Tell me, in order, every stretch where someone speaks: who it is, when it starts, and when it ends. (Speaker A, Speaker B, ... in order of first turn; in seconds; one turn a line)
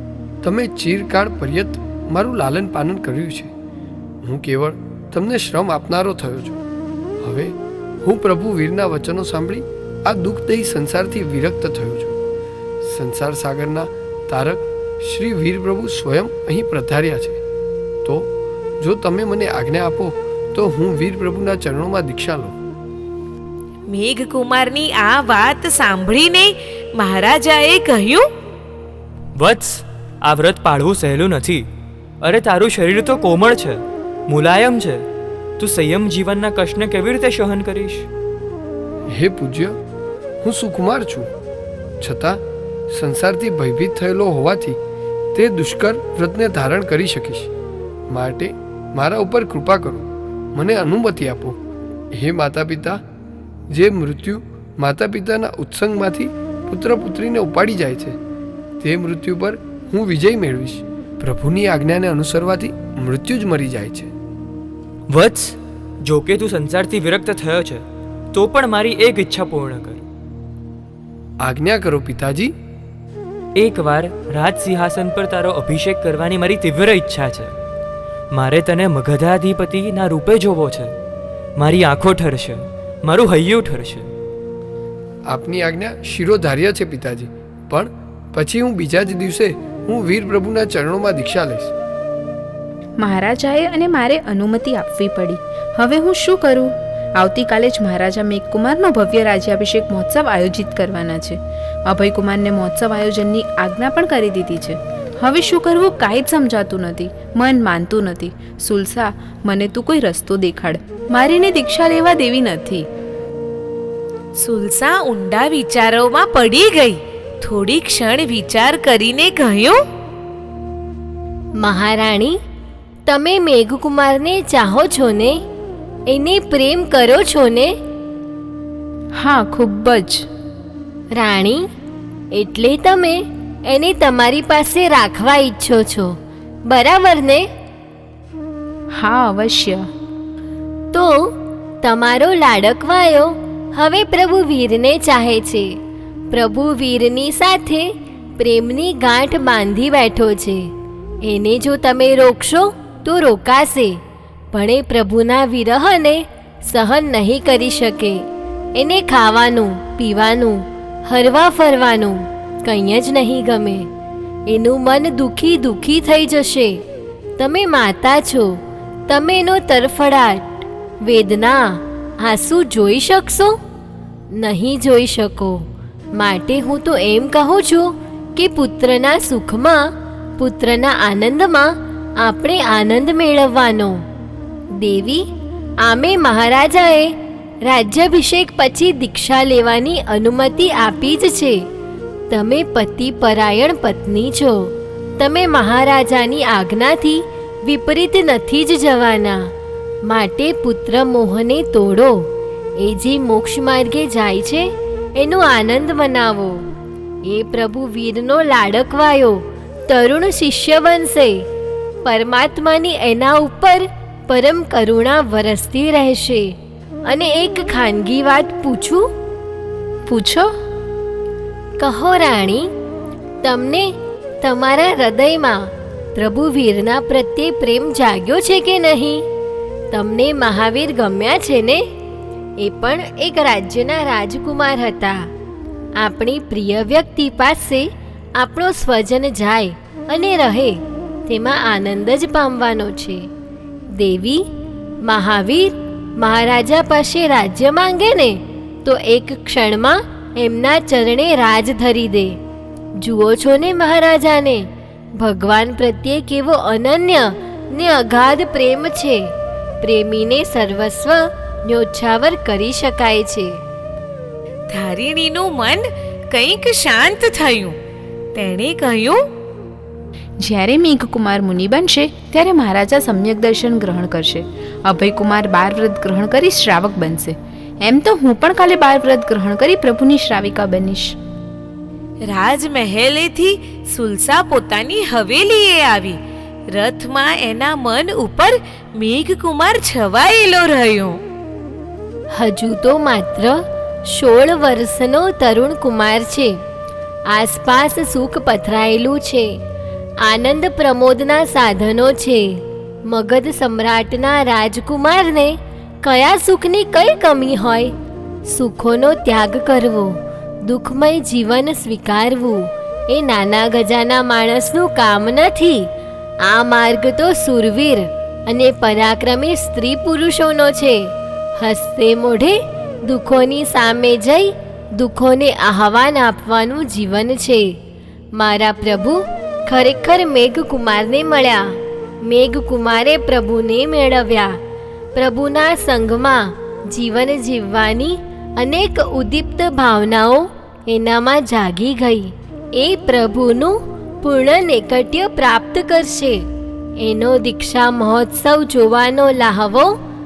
Speaker A: 0.4-3.5
Speaker A: 4.2-6.6
Speaker A: 7.2-12.2
Speaker A: 12.8-17.4
Speaker A: 18.1-22.6
Speaker B: 23.9-28.3
Speaker C: 29.4-31.6
Speaker C: 32.2-35.0
Speaker C: 35.6-38.1
Speaker A: 39.1-39.7
Speaker A: 40.4-41.3
Speaker A: 42.0-42.4
Speaker A: 42.9-44.8
Speaker A: 45.4-47.5
Speaker A: 48.1-51.6
Speaker A: 52.1-53.0
Speaker A: 53.7-58.2
Speaker A: 58.8-64.1
Speaker C: 65.1-70.0
Speaker A: 71.4-72.5
Speaker C: 73.6-77.5
Speaker C: 78.3-80.9
Speaker C: 81.6-84.1
Speaker A: 85.3-91.7
Speaker D: 93.0-112.9
Speaker B: 114.4-119.8
Speaker E: 121.6-122.4
Speaker E: 123.1-125.4
Speaker E: 126.1-127.7
Speaker D: 129.2-130.3
Speaker E: 131.2-131.7
Speaker E: 132.3-136.2
Speaker E: 136.7-137.5
Speaker D: 138.9-139.9
Speaker E: 140.9-145.7
Speaker E: 146.3-150.7
Speaker E: 151.2-154.0
Speaker E: 154.5-158.2
Speaker E: 158.8-163.9
Speaker E: 164.5-166.8
Speaker E: 167.4-170.5
Speaker E: 171.1-173.6
Speaker E: 174.4-175.6
Speaker E: 176.2-179.9
Speaker E: 180.4-184.0
Speaker E: 184.8-185.2
Speaker E: 185.8-187.1
Speaker E: 187.7-191.6
Speaker E: 192.3-199.4
Speaker E: 200.1-202.2
Speaker E: 202.8-206.6
Speaker E: 207.3-211.4
Speaker E: 212.1-216.5
Speaker E: 217.1-219.1
Speaker D: 220.1-220.5
Speaker E: 221.8-222.7
Speaker E: 223.4-229.2
Speaker E: 229.9-231.8
Speaker E: 232.6-235.2
Speaker E: 236.0-243.3
Speaker E: 243.9-244.4
Speaker E: 245.1-252.4
Speaker E: 253.0-254.7
Speaker E: 255.2-259.3
Speaker E: 259.8-263.6
Speaker B: 264.7-267.8
Speaker B: 268.4-269.2
Speaker D: 270.4-281.2
Speaker B: 282.3-286.2
Speaker B: 286.7-291.2
Speaker E: 292.4-296.5
Speaker E: 297.3-299.5
Speaker E: 300.2-302.6
Speaker E: 303.1-307.9
Speaker E: 308.5-315.9
Speaker E: 316.4-321.0
Speaker E: 321.6-327.7
Speaker E: 328.4-331.7
Speaker E: 332.3-334.6
Speaker E: 335.2-346.4
Speaker E: 347.0-350.0